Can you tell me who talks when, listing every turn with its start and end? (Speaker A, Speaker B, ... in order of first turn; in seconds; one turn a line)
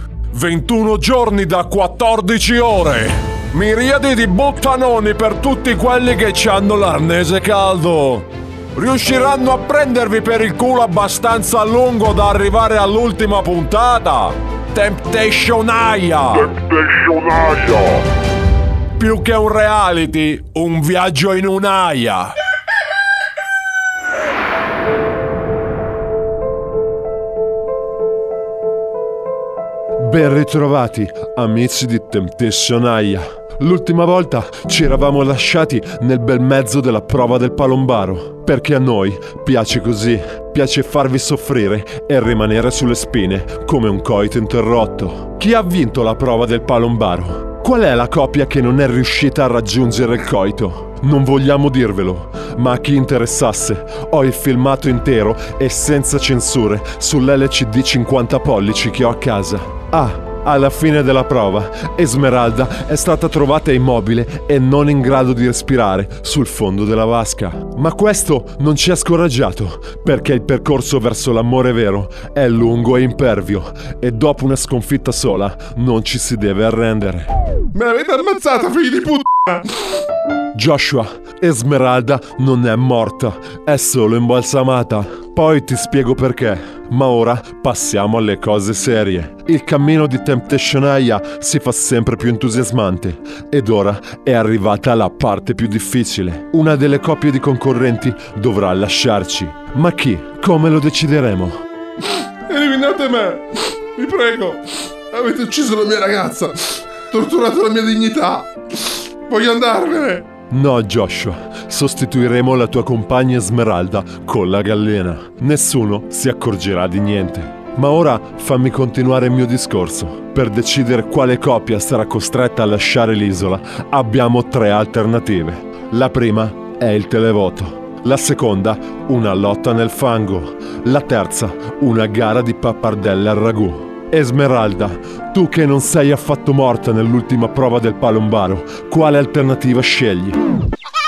Speaker A: 0.3-18.0
Speaker A: 18.9-22.3
Speaker B: 30.0-77.3
Speaker C: 77.7-79.8
Speaker B: 80.5-101.6
Speaker C: 102.1-110.3
Speaker B: 110.5-140.4